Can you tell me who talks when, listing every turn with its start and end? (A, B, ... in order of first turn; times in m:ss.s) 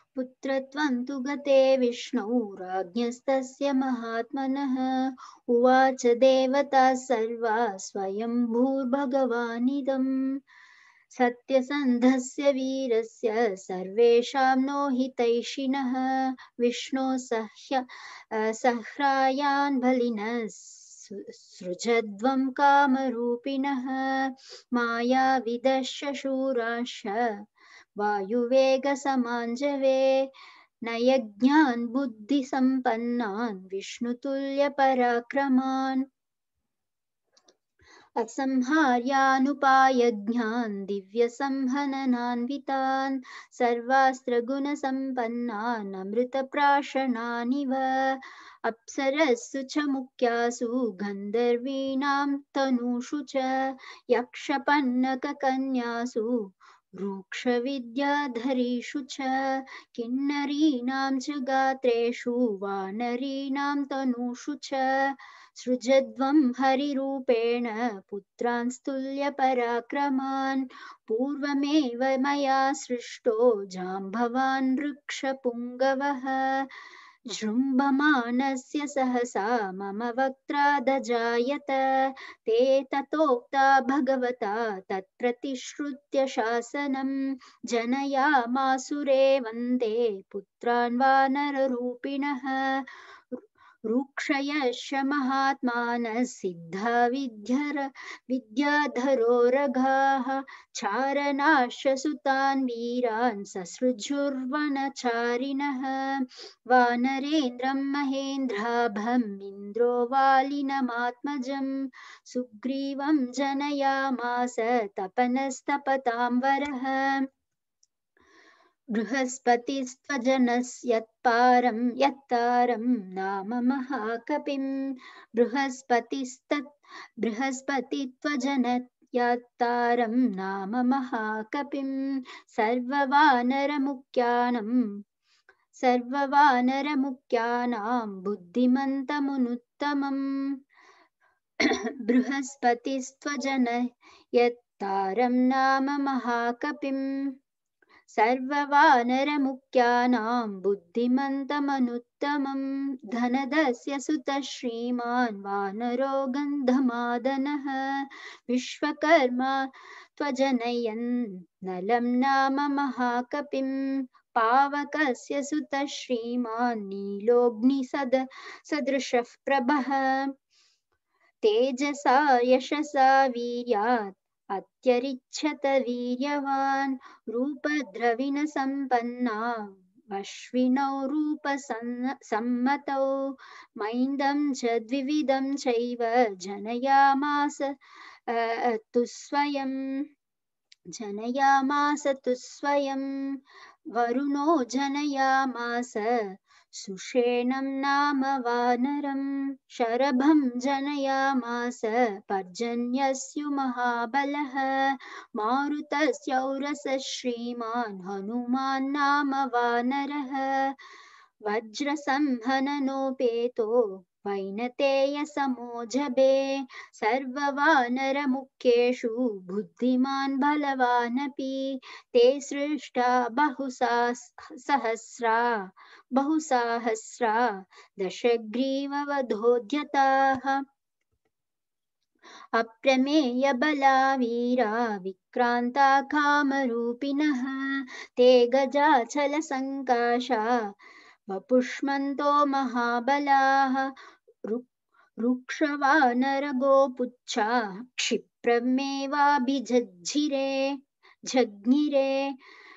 0:00.2-0:10.1 A
0:11.1-0:27.3 A
0:28.0-0:30.3 A
0:30.9-0:36.0 A
0:38.2-0:56.4 A
0:57.0-1:16.7 A
1:17.3-1:27.2 A
1:27.7-1:33.0 A
1:33.9-1:51.7 A
1:52.3-1:57.2 A
1:59.0-2:06.7 A
2:07.2-2:14.8 A
2:15.8-2:20.2 A
2:21.6-2:27.0 A
2:28.1-2:50.3 A
2:51.4-3:07.7 A
3:08.3-3:10.0 A
3:10.9-3:13.4 A
3:13.9-3:30.8 A
3:31.5-3:45.6 A
3:46.2-3:50.6 A
3:52.6-4:00.7 A
4:01.3-4:04.0 A
4:04.5-4:12.4 A